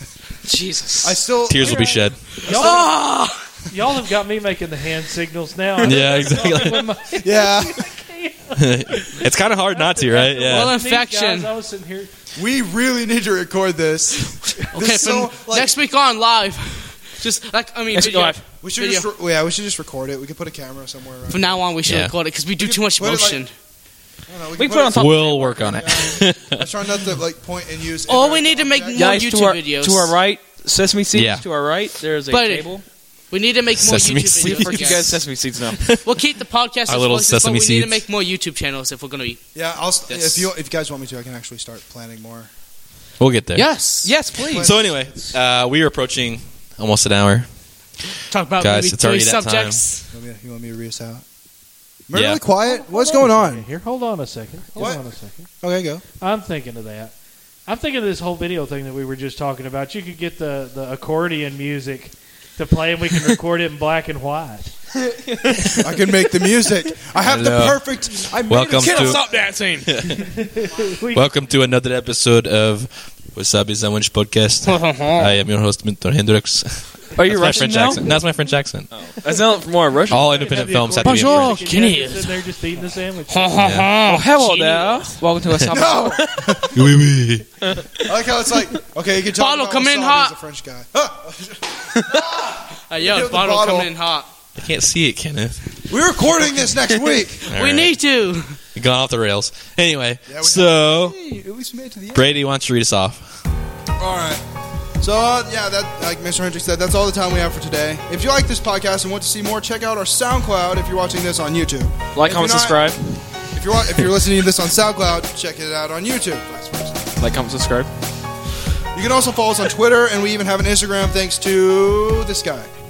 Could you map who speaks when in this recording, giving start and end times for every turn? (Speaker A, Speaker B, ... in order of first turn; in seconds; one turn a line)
Speaker A: 0.4-1.2
Speaker B: 1.0-1.9
Speaker C: 1.5-2.2
Speaker D: 1.6-3.0
Speaker E: 2.4-3.4
Speaker D: 3.7-12.1
Speaker A: 5.8-6.7
Speaker C: 5.8-6.9
Speaker B: 7.1-7.9
Speaker C: 8.6-10.8
Speaker E: 10.4-11.5
Speaker B: 12.3-15.7
Speaker E: 14.7-19.1
Speaker A: 17.9-18.4
Speaker B: 18.6-21.6
Speaker E: 21.3-23.5
Speaker C: 21.9-22.1
Speaker B: 22.6-23.4
Speaker B: 24.3-29.1
Speaker A: 24.6-26.1
Speaker C: 24.9-26.7
Speaker E: 28.1-30.1
Speaker A: 28.9-32.8
Speaker C: 31.1-31.4
Speaker E: 32.3-32.7
Speaker E: 33.3-35.2
Speaker C: 33.8-35.2
Speaker A: 34.4-35.9
Speaker C: 35.8-36.1
Speaker E: 36.0-39.4
Speaker C: 36.9-38.0
Speaker B: 39.5-42.5
Speaker E: 40.1-40.5
Speaker C: 43.2-43.7
Speaker E: 43.5-44.1
Speaker A: 44.0-44.7
Speaker B: 44.4-45.3
Speaker C: 44.6-47.5
Speaker E: 48.3-50.1
Speaker C: 48.6-49.8
Speaker B: 50.1-51.2
Speaker B: 52.1-53.7
Speaker C: 52.1-52.4
Speaker D: 52.6-55.5
Speaker B: 54.8-55.0
Speaker B: 55.6-56.0
Speaker D: 56.2-57.1
Speaker D: 57.7-64.7
Speaker A: 65.0-65.9
Speaker B: 65.7-69.3
Speaker C: 67.2-67.8
Speaker C: 68.5-69.2
Speaker A: 68.8-70.4
Speaker C: 69.9-70.2
Speaker D: 70.4-71.3
Speaker C: 71.1-78.9
Speaker E: 74.6-75.4
Speaker A: 77.2-78.1
Speaker A: 78.9-80.4
Speaker C: 80.1-81.6
Speaker D: 80.1-83.7
Speaker E: 81.0-82.4
Speaker E: 83.3-85.1
Speaker C: 83.6-83.9
Speaker A: 83.9-86.7
Speaker B: 85.7-86.9
Speaker C: 86.7-87.5
Speaker A: 87.6-88.1
Speaker B: 88.0-93.9
Speaker E: 89.3-90.3
Speaker E: 92.9-94.3
Speaker C: 94.6-95.6
Speaker B: 95.9-97.5
Speaker C: 97.5-98.0
Speaker E: 97.5-98.6
Speaker C: 98.8-101.2
Speaker B: 100.3-102.3
Speaker C: 102.2-103.4
Speaker B: 104.0-104.4
Speaker B: 105.0-112.9
Speaker A: 112.1-113.1
Speaker B: 113.5-117.1
Speaker A: 117.2-117.9
Speaker B: 118.9-122.7